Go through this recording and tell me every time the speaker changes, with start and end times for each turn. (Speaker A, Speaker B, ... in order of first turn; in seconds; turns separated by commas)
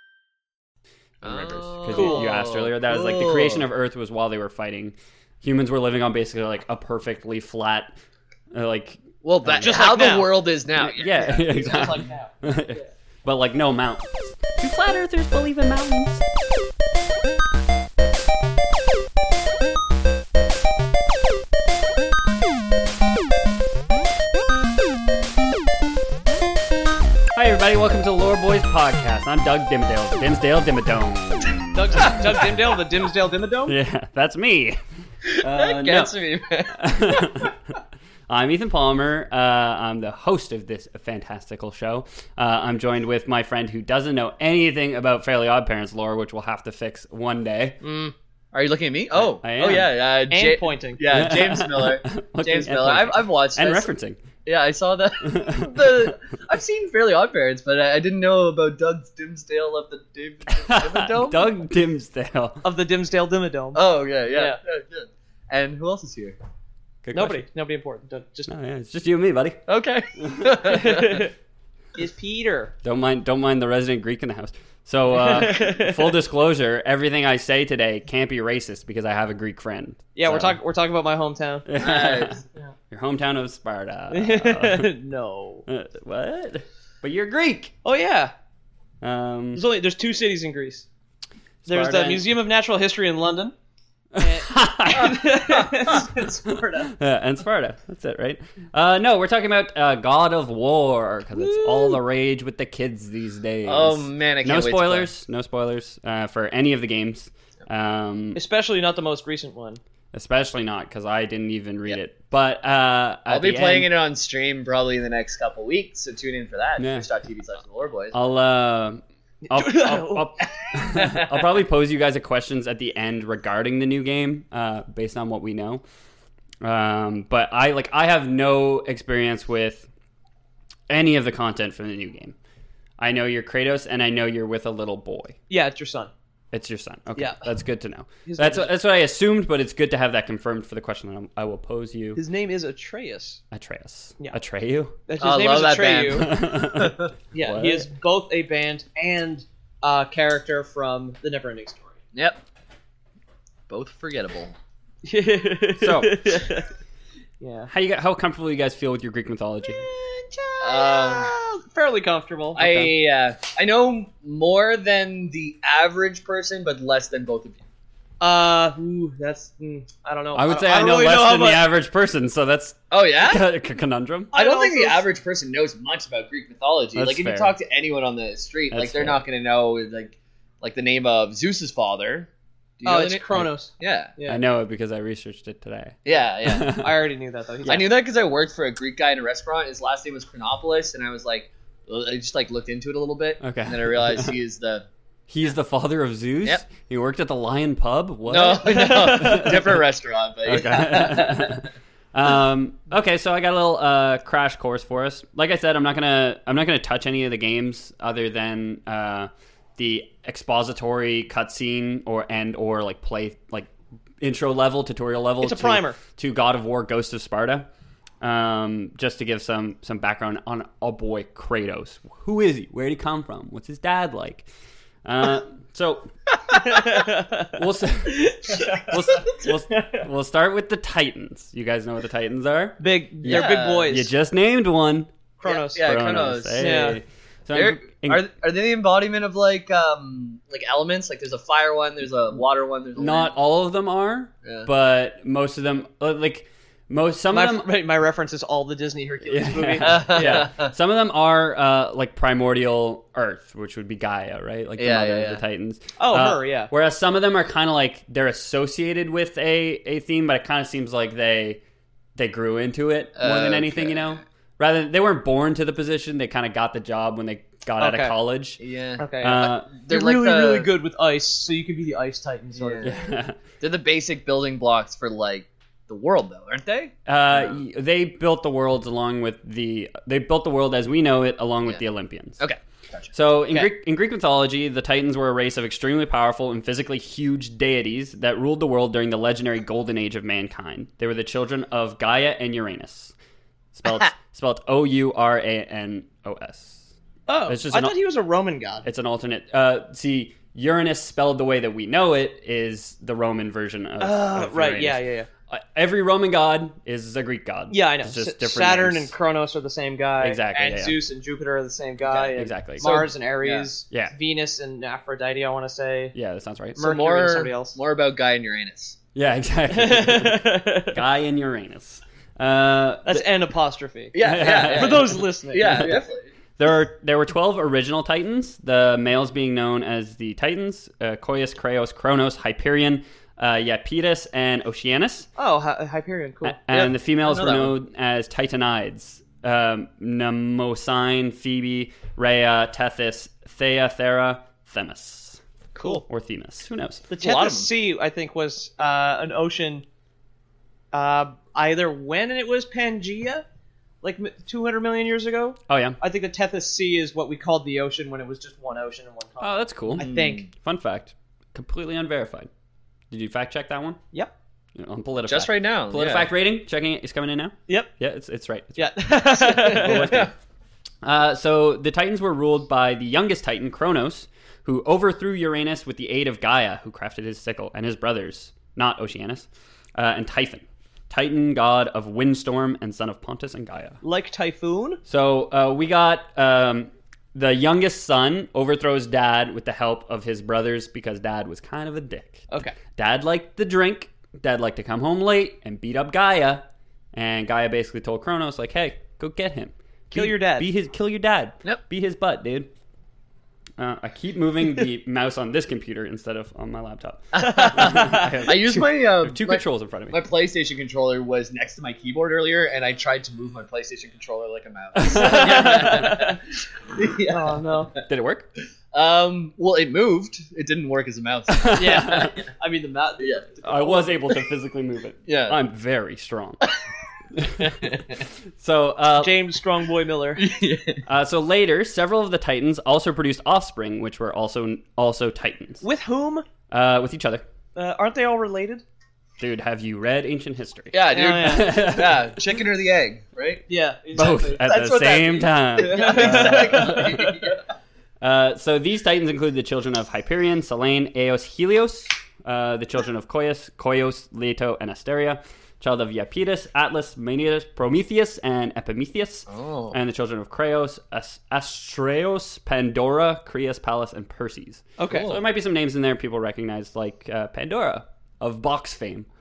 Speaker A: 1.2-7.9, Speaker B: 1.2-3.6, Speaker C: 1.9-2.4, Speaker A: 8.5-10.1, Speaker B: 9.2-11.5, Speaker C: 9.6-10.4, Speaker A: 10.8-16.2, Speaker C: 11.2-12.9, Speaker A: 27.3-32.1, Speaker C: 31.7-33.7, Speaker A: 33.7-34.8, Speaker A: 35.4-36.1, Speaker B: 35.5-37.5, Speaker A: 36.7-37.5, Speaker A: 38.3-47.8, Speaker B: 47.8-53.9, Speaker A: 49.1-49.9, Speaker C: 50.3-51.0, Speaker A: 51.1-54.2, Speaker B: 54.4-61.5, Speaker A: 55.3-56.1, Speaker A: 60.5-62.6, Speaker C: 62.6-64.6, Speaker B: 63.7-66.4, Speaker A: 67.0-67.4, Speaker C: 67.1-68.5, Speaker A: 68.5-69.7, Speaker B: 69.7-71.2, Speaker A: 70.2-70.5, Speaker C: 70.7-71.3, Speaker C: 72.0-72.7, Speaker A: 72.8-80.6, Speaker C: 75.1-76.1, Speaker C: 80.1-81.7, Speaker A: 81.7-84.9, Speaker B: 81.8-82.4, Speaker C: 84.1-85.6, Speaker A: 85.7-87.7, Speaker C: 87.8-88.3, Speaker A: 89.0-89.6, Speaker C: 89.5-90.8, Speaker A: 91.6-92.2, Speaker C: 91.7-93.5, Speaker A: 94.1-95.1, Speaker C: 94.2-96.9, Speaker B: 94.9-96.0, Speaker A: 96.9-108.4, Speaker C: 101.4-101.9, Speaker B: 103.7-105.1, Speaker C: 108.3-109.8, Speaker A: 110.1-113.9, Speaker B: 113.3-118.2, Speaker A: 116.8-117.1, Speaker A: 118.1-125.8, Speaker C: 119.5-120.4, Speaker B: 120.9-121.3, Speaker A: 126.6-129.9, Speaker A: 130.9-132.3, Speaker A: 133.0-135.3, Speaker C: 135.5-136.1, Speaker A: 136.5-142.2, Speaker C: 137.2-137.4, Speaker C: 138.2-138.7, Speaker C: 142.2-143.4, Speaker A: 143.5-144.9, Speaker C: 145.1-146.3, Speaker B: 145.2-147.1, Speaker A: 146.2-147.9, Speaker C: 147.3-152.0, Speaker B: 152.1-152.4, Speaker B: 153.7-154.6, Speaker C: 155.0-156.7, Speaker A: 155.8-156.2, Speaker C: 157.4-157.7, Speaker A: 157.7-159.8, Speaker C: 159.8-162.7, Speaker B: 160.6-161.3, Speaker A: 162.6-162.9, Speaker B: 162.6-167.6, Speaker C: 168.2-171.6, Speaker A: 170.3-174.3, Speaker B: 172.9-173.4, Speaker C: 174.3-175.1, Speaker B: 174.3-182.3, Speaker A: 176.9-177.5, Speaker A: 178.7-179.2, Speaker B: 182.8-184.1, Speaker C: 182.8-184.4, Speaker A: 184.2-186.9, Speaker B: 186.0-186.7, Speaker C: 186.7-187.9, Speaker B: 187.7-194.8, Speaker A: 193.4-194.3, Speaker A: 195.3-199.8, Speaker B: 198.3-201.6, Speaker C: 198.7-199.5, Speaker A: 200.4-213.7, Speaker A: 214.2-217.7, Speaker C: 215.4-216.0, Speaker A: 218.2-224.5, Speaker A: 225.0-226.1, Speaker C: 226.6-227.5, Speaker A: 227.5-235.1, Speaker C: 228.1-228.8, Speaker C: 229.4-230.0, Speaker C: 232.8-234.1, Speaker B: 233.3-233.9, Speaker C: 235.4-235.8, Speaker B: 235.4-236.8, Speaker A: 235.8-238.2, Speaker C: 236.6-237.0, Speaker B: 237.5-243.3, Speaker A: 242.9-247.7, Speaker C: 247.3-250.5, Speaker A: 249.3-261.6, Speaker B: 249.8-250.7, Speaker B: 254.8-255.4, Speaker C: 256.0-256.7, Speaker A: 262.1-268.6, Speaker B: 263.2-264.2, Speaker C: 267.8-268.2, Speaker B: 268.6-270.7, Speaker C: 269.0-272.9, Speaker A: 269.2-269.7, Speaker B: 272.6-273.1, Speaker A: 272.8-273.4, Speaker B: 273.6-277.6, Speaker A: 277.1-282.4, Speaker B: 282.4-283.7, Speaker A: 283.1-293.1, Speaker A: 293.7-296.9, Speaker C: 297.3-298.8, Speaker A: 297.5-297.9, Speaker A: 298.8-309.1, Speaker C: 304.0-305.3, Speaker C: 307.7-316.1, Speaker A: 310.2-311.0, Speaker B: 312.1-313.7, Speaker A: 312.4-312.9, Speaker A: 316.1-316.9, Speaker C: 316.8-317.8, Speaker B: 316.8-318.9, Speaker A: 319.1-323.2, Speaker C: 319.7-320.9, Speaker C: 323.1-324.1, Speaker B: 324.1-326.3, Speaker A: 324.2-326.0, Speaker C: 324.7-326.0, Speaker A: 326.6-335.3, Speaker C: 335.4-336.6, Speaker A: 336.4-347.1, Speaker B: 336.7-337.7, Speaker B: 345.8-346.0, Speaker C: 345.8-346.0, Speaker C: 347.1-349.8, Speaker B: 347.2-347.7, Speaker C: 350.9-353.4, Speaker C: 354.0-360.4, Speaker A: 355.7-356.0, Speaker A: 359.4-362.5, Speaker B: 360.0-360.4, Speaker A: 363.1-364.0, Speaker A: 364.8-368.9, Speaker B: 365.2-366.3, Speaker C: 368.8-370.1, Speaker B: 369.3-370.3, Speaker A: 369.8-370.3, Speaker A: 371.0-384.0, Speaker C: 384.0-385.0, Speaker A: 385.1-392.4, Speaker C: 392.5-392.8, Speaker A: 392.9-402.7, Speaker C: 400.1-400.7, Speaker A: 403.8-410.2, Speaker B: 407.3-416.4, Speaker C: 407.4-408.3, Speaker A: 414.9-416.1, Speaker C: 415.1-416.4, Speaker B: 416.9-417.6, Speaker C: 417.3-417.9, Speaker A: 418.1-418.5, Speaker B: 418.9-422.4, Speaker A: 421.5-422.4, Speaker C: 421.8-424.1, Speaker B: 423.2-423.4, Speaker A: 423.6-426.6, Speaker B: 425.2-425.6, Speaker A: 427.3-427.7, Speaker B: 427.6-428.0, Speaker A: 428.6-429.3, Speaker C: 429.2-430.6, Speaker B: 430.4-431.0, Speaker A: 431.1-435.8, Speaker C: 435.8-436.4, Speaker A: 436.7-437.4, Speaker C: 437.7-438.8, Speaker A: 439.4-442.3, Speaker B: 440.9-443.6, Speaker C: 441.1-441.8, Speaker C: 443.7-445.0, Speaker A: 444.1-447.3, Speaker B: 444.2-447.6, Speaker C: 445.8-447.4, Speaker A: 448.2-469.3, Speaker B: 459.5-460.0, Speaker C: 465.0-465.3, Speaker B: 465.1-465.4